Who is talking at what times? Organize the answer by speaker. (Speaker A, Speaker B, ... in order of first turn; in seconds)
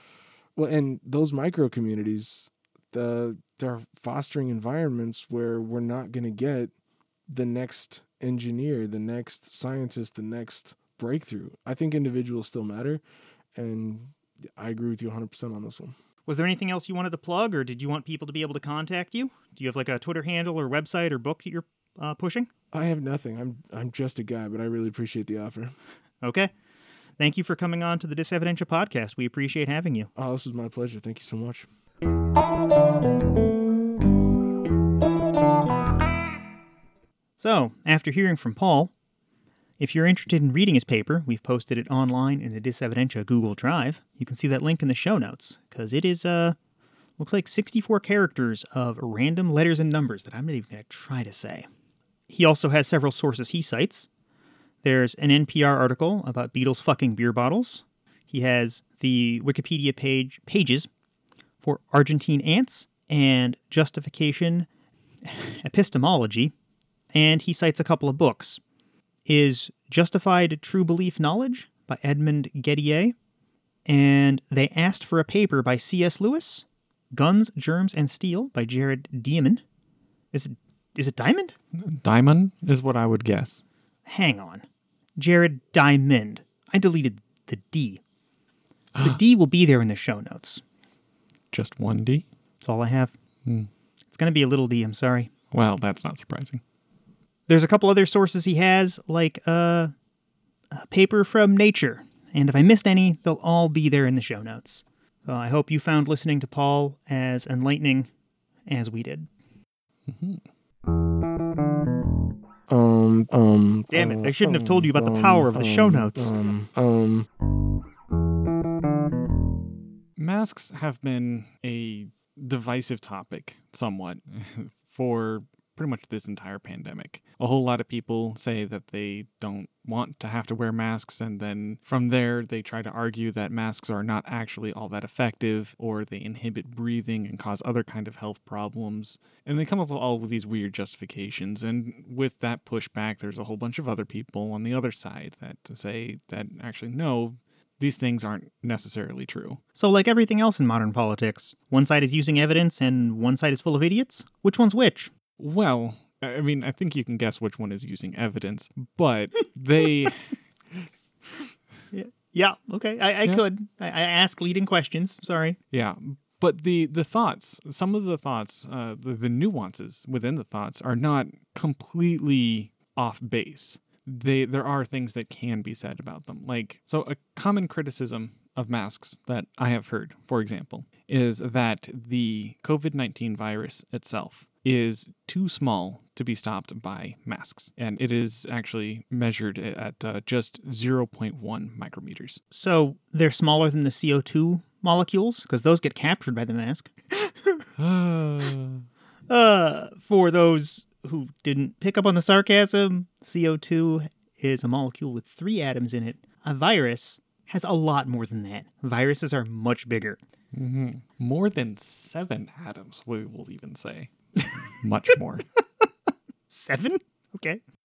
Speaker A: 0.6-6.7, 7.3-13.0, 13.6-15.9, 22.7-25.8, 30.2-31.7, 112.7-117.3
Speaker B: 16.3-22.5, 26.2-26.5, 27.2-30.1, 37.4-38.9, 39.8-46.6, 47.2-51.7, 52.3-54.1, 54.8-60.9, 61.6-64.7, 65.2-66.5, 67.1-68.6, 69.3-73.1, 73.9-79.6, 80.3-81.5, 84.1-84.6, 85.2-88.0, 89.0-90.6, 92.6-93.1, 94.1-95.3, 97.5-99.9, 100.7-108.1, 108.7-109.3, 113.9-116.3, 149.8-155.1, 161.9-165.6, 192.5-197.7, 199.3-210.2, 216.5-217.6
Speaker C: 81.8-83.6, 91.5-92.2, 95.5-96.6, 110.1-110.4, 120.2-149.6, 155.4-160.4, 165.7-192.4, 197.8-198.8, 210.5-215.5